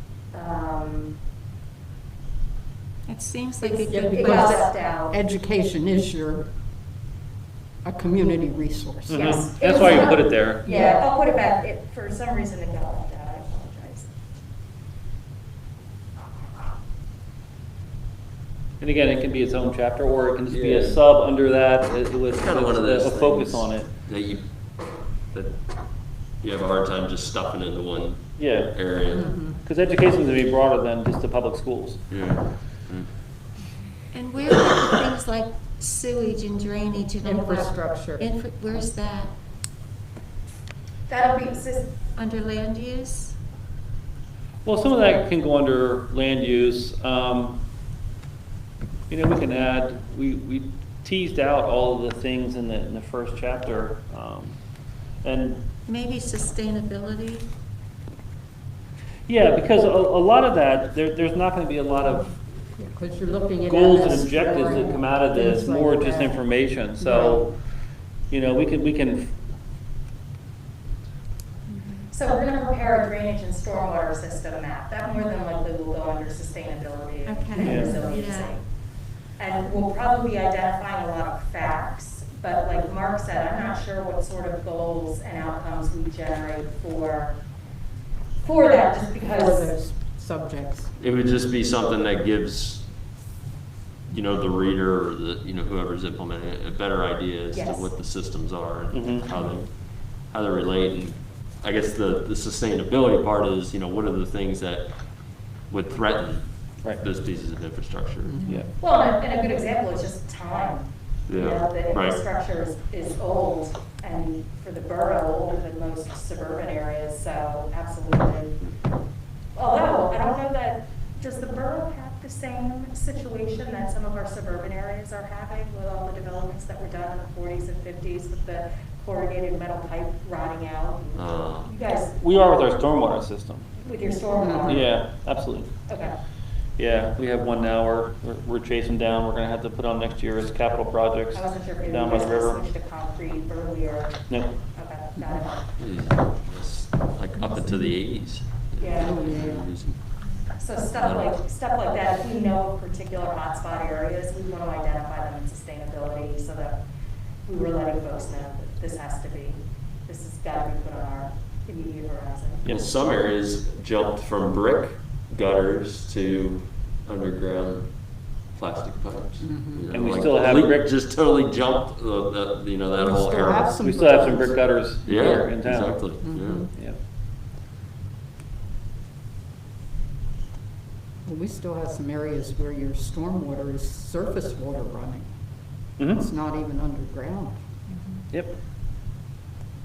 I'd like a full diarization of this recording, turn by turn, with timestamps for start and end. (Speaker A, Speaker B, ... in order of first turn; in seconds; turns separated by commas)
Speaker A: 0.3-1.1, Speaker B: 3.1-4.5, Speaker A: 3.6-5.2, Speaker C: 3.9-6.5, Speaker C: 7.8-11.1, Speaker D: 9.1-10.6, Speaker A: 9.1-14.1, Speaker D: 18.8-23.9, Speaker E: 20.5-21.0, Speaker E: 22.3-24.4, Speaker E: 26.4-29.3, Speaker D: 28.4-28.7, Speaker C: 29.1-29.6, Speaker D: 29.5-32.0, Speaker E: 32.1-33.1, Speaker B: 34.1-39.3, Speaker C: 37.2-38.3, Speaker A: 41.1-41.9, Speaker B: 42.1-43.4, Speaker D: 44.6-47.6, Speaker D: 49.1-54.6, Speaker D: 55.2-55.6, Speaker B: 55.9-57.5, Speaker D: 59.3-62.3, Speaker C: 62.8-66.4, Speaker D: 63.6-67.5, Speaker C: 67.0-67.5, Speaker D: 68.3-69.3, Speaker B: 71.7-72.1, Speaker A: 72.1-78.6, Speaker B: 77.2-78.5, Speaker D: 77.6-78.0, Speaker A: 79.4-87.4, Speaker A: 88.4-89.8, Speaker C: 89.2-90.9, Speaker E: 91.0-92.9, Speaker E: 94.1-99.7, Speaker A: 97.5-97.9, Speaker D: 98.9-99.3, Speaker E: 100.3-104.9, Speaker E: 105.7-108.4, Speaker C: 108.2-108.7, Speaker A: 108.8-118.6, Speaker E: 111.3-112.2, Speaker A: 119.5-132.2, Speaker E: 131.1-131.7, Speaker D: 132.2-133.7, Speaker A: 133.8-134.9, Speaker C: 134.4-134.8, Speaker D: 134.7-135.7, Speaker A: 135.9-136.1, Speaker D: 136.8-142.6, Speaker A: 141.3-144.2, Speaker A: 144.7-145.7, Speaker C: 145.2-145.4, Speaker E: 145.8-150.0, Speaker A: 148.8-149.3, Speaker C: 148.9-149.7, Speaker A: 150.6-156.8, Speaker E: 151.0-151.3, Speaker A: 157.4-162.7, Speaker E: 162.6-167.9, Speaker D: 162.6-162.9, Speaker E: 168.5-173.8, Speaker C: 169.4-170.0, Speaker D: 169.9-170.9, Speaker C: 173.0-174.6, Speaker D: 173.8-176.0, Speaker E: 175.0-176.7, Speaker C: 176.2-176.7, Speaker C: 181.2-185.3, Speaker D: 186.0-186.2, Speaker C: 186.1-187.6, Speaker D: 188.3-188.6